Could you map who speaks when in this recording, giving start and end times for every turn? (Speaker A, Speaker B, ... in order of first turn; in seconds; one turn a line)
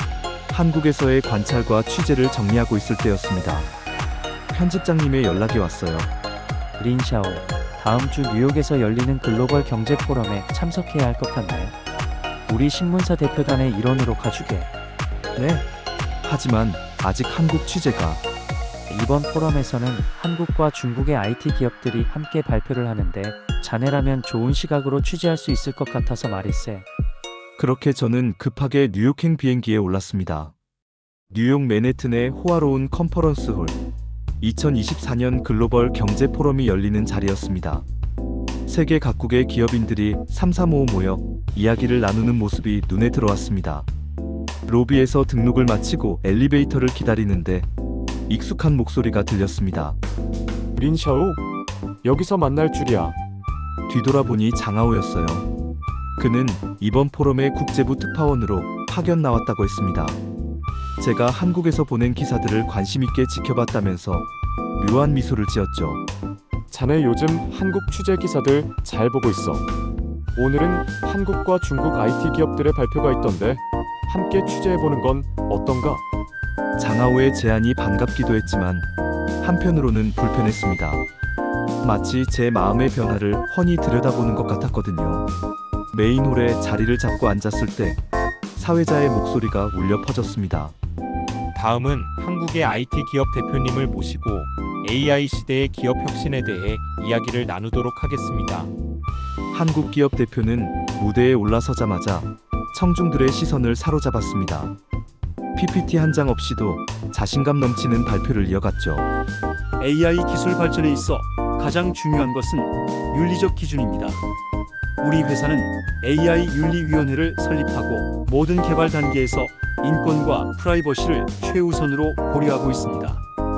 Speaker A: 0.5-3.7
Speaker A: 4.5-6.1
Speaker B: 6.8-11.7
Speaker B: 12.5-14.7
Speaker A: 15.3-15.7
Speaker A: 16.2-18.2
Speaker B: 18.9-26.9
Speaker A: 27.6-30.5
Speaker A: 31.3-33.8
Speaker A: 34.4-37.9
Speaker A: 38.7-43.9
Speaker A: 44.6-47.7
Speaker A: 48.3-50.0
Speaker C: 50.7-51.4
Speaker C: 52.0-53.1
Speaker A: 53.9-55.5
Speaker A: 56.2-60.2
Speaker A: 61.0-66.0
Speaker C: 66.7-69.7
Speaker C: 70.3-76.0
Speaker A: 76.8-78.9
Speaker A: 79.4-81.0
Speaker A: 81.8-85.3
Speaker A: 85.9-88.0
Speaker A: 88.5-90.8
Speaker D: 91.5-98.7
Speaker A: 99.5-104.8
Speaker A: 105.5-109.1
Speaker E: 109.8-114.2
Speaker E: 115.0-123.2